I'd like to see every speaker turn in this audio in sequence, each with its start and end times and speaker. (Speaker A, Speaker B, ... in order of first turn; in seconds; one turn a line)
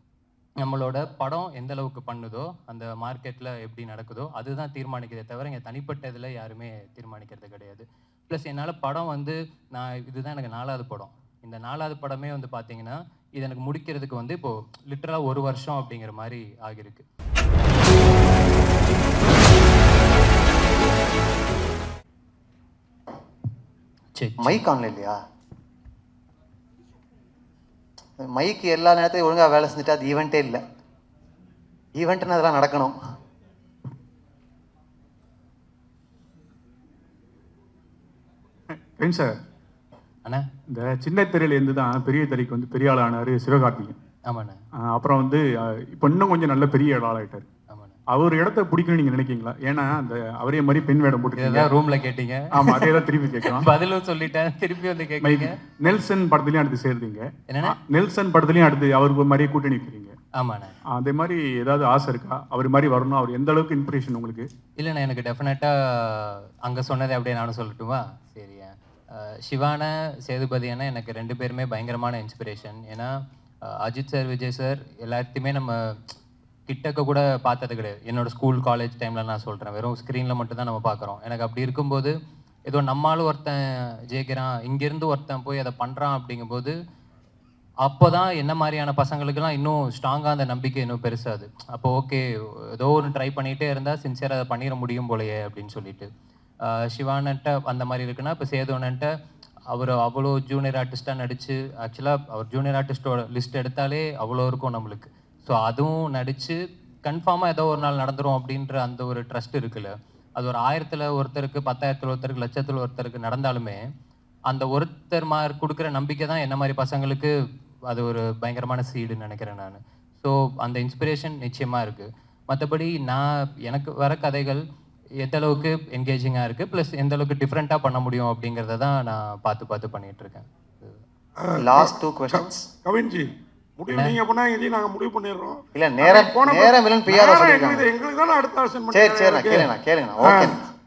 Speaker A: 0.6-17.1
Speaker A: 24.1-24.6
Speaker B: 24.4-25.2
Speaker B: 28.2-30.6
Speaker B: 31.9-33.0
Speaker C: 39.0-39.4
Speaker C: 40.7-44.0
Speaker A: 44.3-44.6
Speaker C: 44.9-47.5
Speaker A: 47.7-48.0
Speaker C: 48.1-51.7
Speaker A: 51.4-55.5
Speaker C: 52.5-53.7
Speaker C: 55.2-60.1
Speaker A: 57.5-57.8
Speaker A: 60.4-60.8
Speaker C: 60.9-64.5
Speaker A: 64.8-73.1
Speaker A: 73.7-76.1
Speaker A: 76.7-82.1
Speaker A: 82.7-86.8
Speaker A: 87.8-92.2
Speaker A: 92.8-96.1
Speaker A: 96.9-99.1
Speaker A: 99.7-113.8
Speaker A: 114.5-117.3
Speaker A: 117.9-124.6
Speaker A: 125.2-131.0
Speaker D: 131.4-139.7
Speaker B: 131.6-132.7
Speaker B: 135.7-137.9
Speaker B: 138.9-140.7
Speaker D: 140.2-140.5